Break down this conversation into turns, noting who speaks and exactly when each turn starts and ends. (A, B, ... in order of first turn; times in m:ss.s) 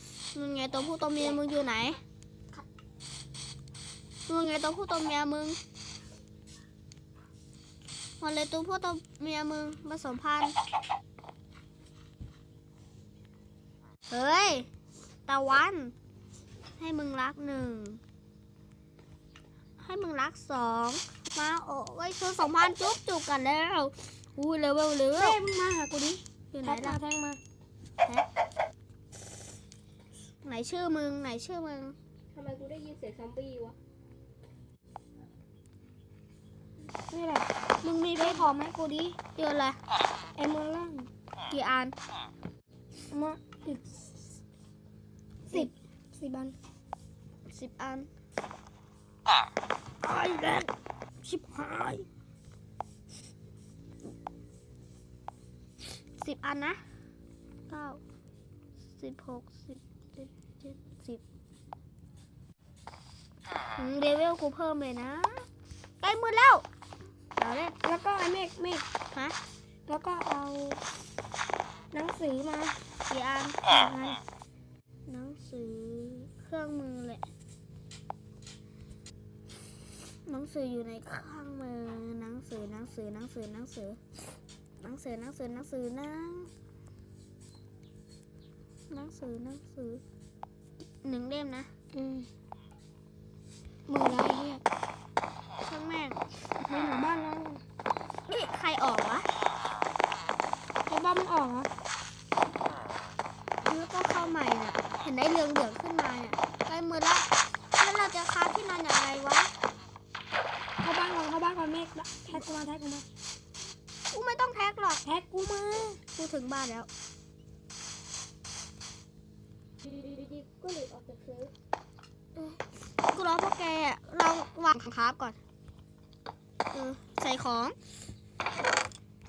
0:00.3-0:02.0 A
0:01.1-0:01.4 B
0:04.3-0:05.6 A
0:08.2-0:10.5 A
0:14.1-0:14.7 A
0:15.3-0:15.9 A
0:16.8-0:18.0 A
0:19.8-0:25.4 A
0:25.1-0:27.4 C
0:26.5-0:27.0 A
0:30.4-0:31.9 A
0:32.3-0:33.8 B
0:37.1-0:37.5 C
0:37.8-0:38.5 A
0:38.2-0:39.2 C
0:39.3-0:39.8 A
0:40.4-0:41.1 C
0:41.5-0:41.9 A
0:43.1-0:44.2 C
0:45.5-0:46.6 C
0:47.5-0:48.1 A
0:50.1-0:50.6 A
0:51.2-0:52.0 A
0:51.4-0:51.9 C
0:56.2-0:56.8 A
0:57.7-0:58.0 A
0:59.0-1:01.2 A
1:03.8-1:05.4 A
1:06.0-1:06.6 A
1:07.4-1:07.7 A
1:07.8-1:08.8 C
1:09.9-1:10.8 C
1:11.9-1:12.8 C
1:13.1-1:13.6 A
1:13.7-1:14.2 C
1:15.1-1:17.2 A
1:20.2-1:24.0 A
1:24.8-1:26.5 A
1:28.9-1:30.0 A
1:31.0-1:31.7 A
1:31.9-1:32.3 C
1:33.9-1:34.6 C
1:35.6-1:36.2 A
1:36.6-1:37.6 C
1:38.3-1:39.2 A
1:40.9-1:41.7 C
1:43.6-1:47.3 A
1:47.8-1:49.5 A
1:50.8-1:53.1 C
1:54.1-1:55.0 A
1:55.0-1:56.0 C
1:56.1-1:56.9 A
1:59.8-2:01.5 B
2:03.1-2:05.4 A
2:06.7-2:07.7 A